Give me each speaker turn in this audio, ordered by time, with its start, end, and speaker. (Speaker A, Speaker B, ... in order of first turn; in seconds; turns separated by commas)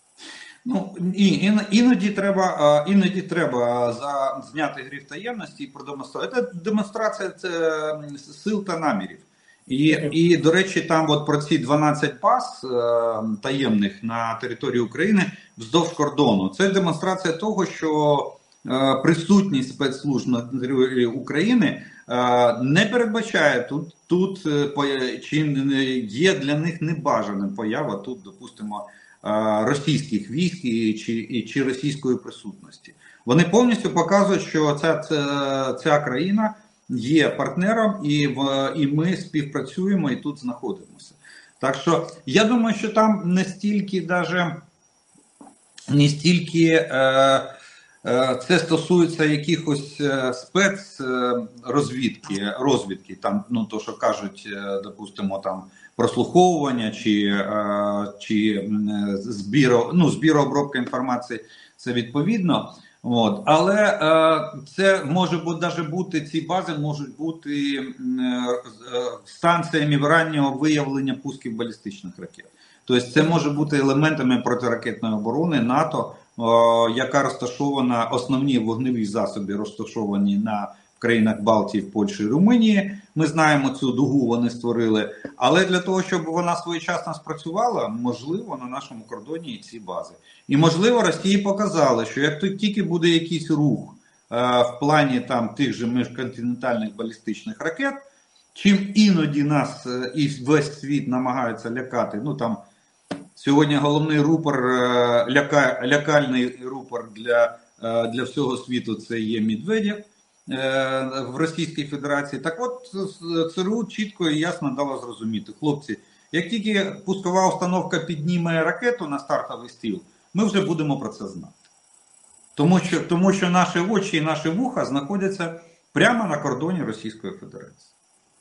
Speaker A: 0.7-44.6, Speaker A: 45.9-98.0, Speaker A: 98.5-102.7, Speaker A: 103.4-121.6, Speaker A: 122.6-127.9